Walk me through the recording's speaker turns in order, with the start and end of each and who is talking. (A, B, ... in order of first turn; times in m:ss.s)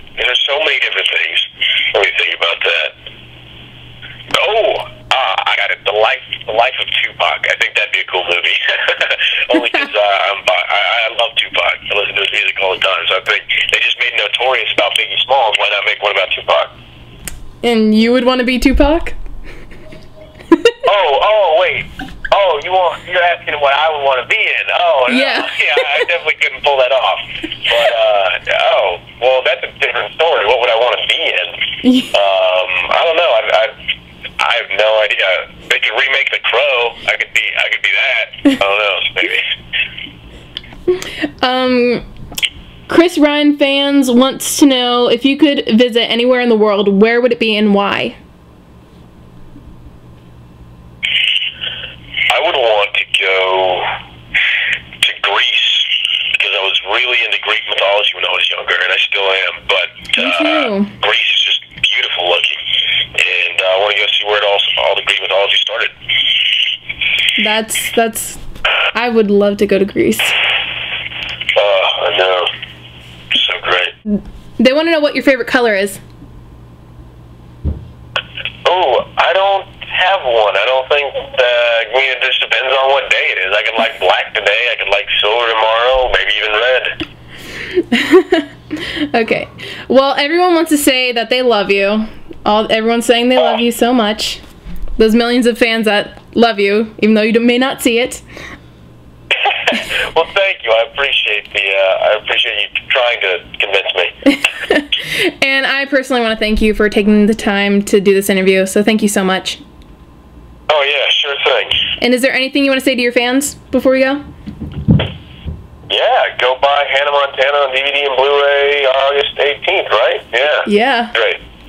0:00.2-0:02.9 A
0:04.3-0:16.7 A
0:09.6-0:09.9 B
0:17.6-0:19.2 B
0:20.5-0:20.8 B
0:20.8-0:31.6 A
0:25.1-0:26.0 B
0:31.8-0:32.1 B
0:32.1-0:33.7 A
0:34.4-0:39.5 A
0:41.0-0:42.0 B
0:42.9-0:48.2 B
0:52.3-0:53.9 A
0:55.0-1:02.6 A
1:00.1-1:00.9 B
1:03.1-1:05.9 A
1:07.4-1:08.4 B
1:08.9-1:10.4 B
1:11.5-1:12.5 A
1:13.3-1:13.9 A
1:14.1-1:16.0 B
1:18.6-1:27.0 A
1:27.7-1:34.4 B
1:33.4-1:33.6 A
1:35.0-1:38.2 B
1:39.4-1:44.1 A
1:44.4-1:49.6 B
1:50.7-1:51.8 A
1:52.0-1:54.2 B
1:55.9-2:01.4 A
2:00.6-2:01.1 B